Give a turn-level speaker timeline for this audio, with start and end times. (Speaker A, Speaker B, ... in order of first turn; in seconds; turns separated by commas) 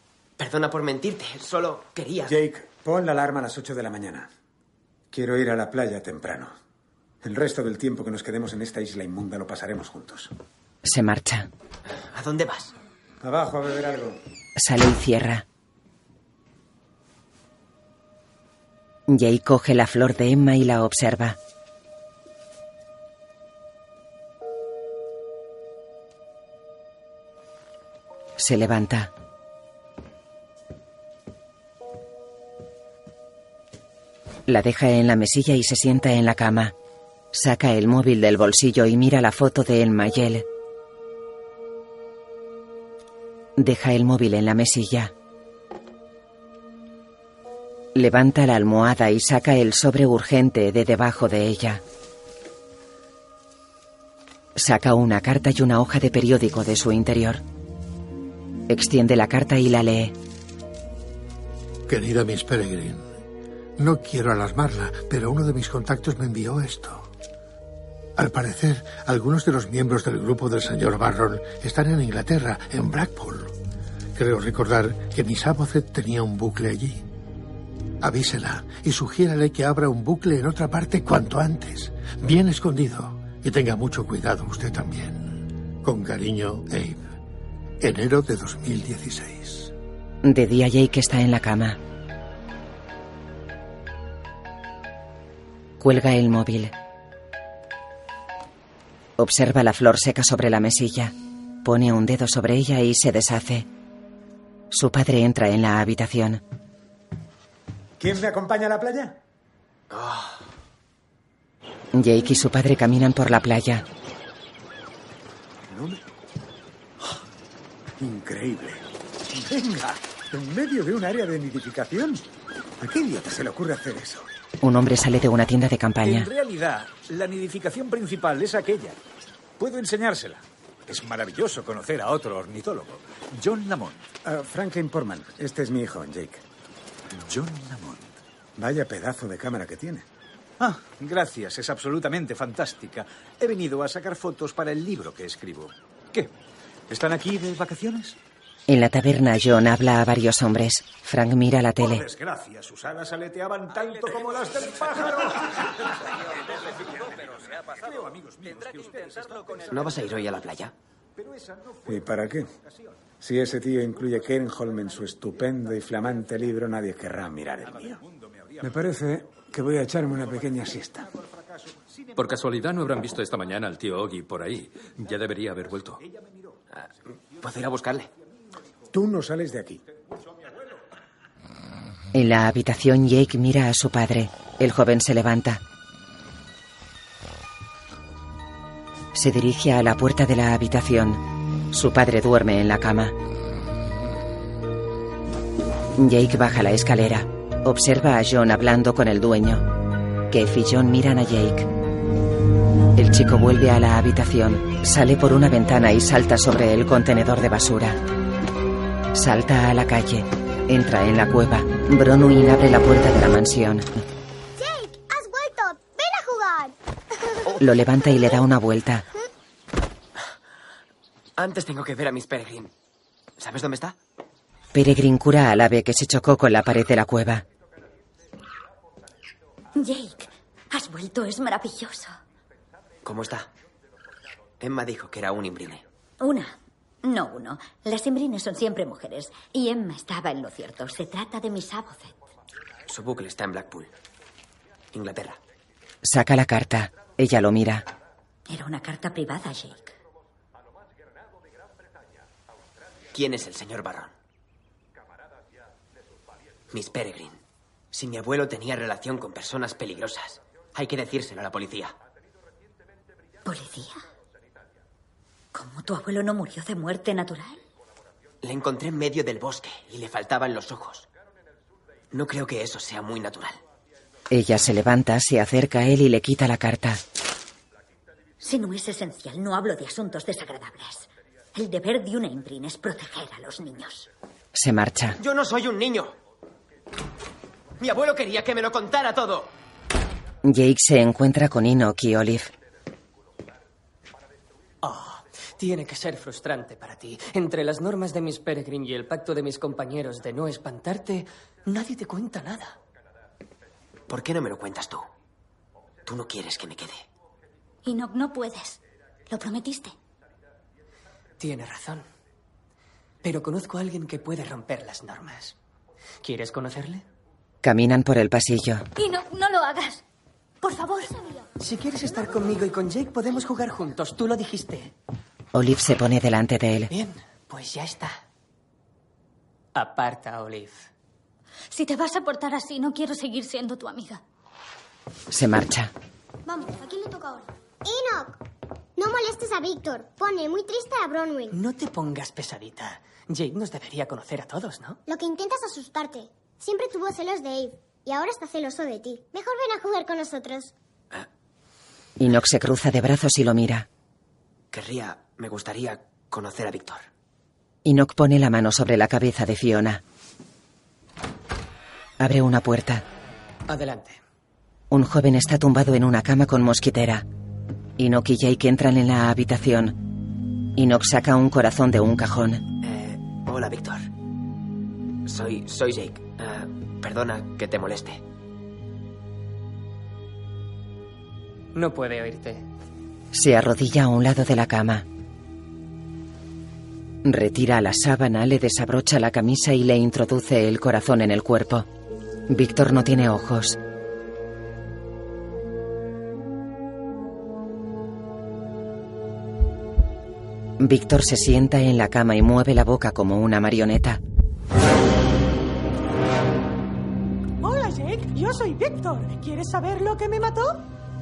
Speaker A: 0.4-2.4, Speaker B: 2.2-4.3, Speaker B: 5.1-6.5, Speaker B: 7.2-10.3, Speaker C: 10.8-11.5, Speaker A: 12.0-12.7, Speaker B: 13.2-14.2, Speaker C: 14.6-15.4, Speaker C: 19.1-21.4, Speaker C: 28.4-29.1, Speaker C: 34.5-36.7, Speaker C: 37.3-40.4, Speaker C: 43.5-45.1, Speaker C: 47.9-51.8, Speaker C: 54.5-57.4, Speaker C: 58.7-60.1, Speaker D: 61.9-63.1, Speaker D: 63.8-67.1, Speaker D: 68.2-73.5, Speaker D: 74.2-77.0, Speaker D: 78.0-87.0, Speaker D: 87.8-89.7, Speaker C: 90.2-91.8, Speaker C: 95.8-96.7, Speaker C: 99.2-103.7, Speaker C: 104.7-106.4, Speaker B: 108.0-109.2, Speaker A: 109.9-110.4, Speaker C: 111.9-113.8, Speaker B: 115.7-116.0, Speaker B: 118.0-118.8, Speaker B: 119.5-122.2, Speaker B: 122.8-124.3, Speaker C: 124.6-126.3, Speaker E: 126.0-128.9, Speaker E: 129.6-130.4, Speaker E: 131.0-133.9, Speaker B: 134.2-136.4, Speaker B: 138.6-140.1, Speaker E: 141.0-141.6, Speaker E: 142.3-143.0, Speaker E: 143.9-145.4, Speaker E: 146.9-147.9, Speaker C: 148.7-152.1, Speaker E: 152.0-155.1, Speaker E: 158.3-159.6, Speaker A: 159.7-160.7, Speaker B: 161.8-162.5, Speaker B: 163.2-168.0, Speaker B: 168.6-171.1, Speaker F: 172.2-176.0, Speaker A: 176.7-178.1, Speaker B: 178.9-179.8, Speaker C: 182.1-185.6, Speaker C: 189.1-191.2, Speaker C: 191.7-193.1, Speaker C: 195.9-199.7, Speaker C: 200.3-201.7, Speaker C: 202.9-208.0, Speaker C: 209.1-213.9, Speaker G: 214.6-216.7, Speaker C: 217.6-219.1, Speaker A: 221.4-222.7, Speaker A: 223.4-224.0, Speaker C: 224.7-227.4, Speaker H: 229.7-232.2, Speaker A: 233.0-233.5, Speaker A: 234.6-235.8, Speaker H: 236.2-242.1, Speaker A: 242.9-243.9, Speaker A: 244.9-245.4, Speaker C: 246.0-247.8, Speaker H: 248.5-249.9, Speaker A: 253.1-254.1, Speaker A: 256.7-257.4, Speaker A: 257.9-261.9, Speaker H: 263.4-264.0, Speaker H: 265.5-267.6, Speaker A: 268.4-271.1, Speaker A: 272.1-273.6, Speaker C: 274.3-277.0, Speaker H: 278.4-284.1, Speaker C: 284.5-285.2, Speaker A: 285.2-286.1, Speaker A: 287.8-289.5, Speaker C: 290.4-292.5, Speaker I: 294.8-302.8, Speaker A: 304.1-305.1, Speaker A: 306.1-307.0, Speaker J: 307.8-308.8, Speaker J: 309.3-309.9, Speaker I: 311.4-312.0, Speaker I: 313.2-315.6, Speaker I: 316.2-317.0, Speaker C: 317.6-318.9, Speaker J: 318.9-320.0, Speaker J: 320.6-321.1, Speaker I: 321.6-324.9, Speaker C: 325.5-326.9, Speaker I: 326.9-328.2, Speaker I: 329.7-330.9, Speaker J: 331.7-334.2, Speaker C: 335.3-335.9, Speaker G: 336.8-338.4, Speaker G: 339.0-341.6, Speaker I: 341.5-345.0, Speaker G: 345.1-350.7, Speaker C: 352.2-353.9, Speaker A: 354.7-357.1, Speaker C: 357.8-360.0, Speaker C: 362.2-363.0, Speaker I: 363.7-364.2, Speaker C: 364.9-367.2, Speaker C: 368.0-369.9, Speaker C: 370.8-372.6, Speaker A: 372.8-374.1, Speaker A: 375.2-378.2, Speaker I: 381.7-382.6, Speaker C: 383.3-385.0, Speaker C: 387.2-391.9, Speaker C: 392.5-393.8, Speaker C: 400.8-404.2, Speaker K: 408.2-410.6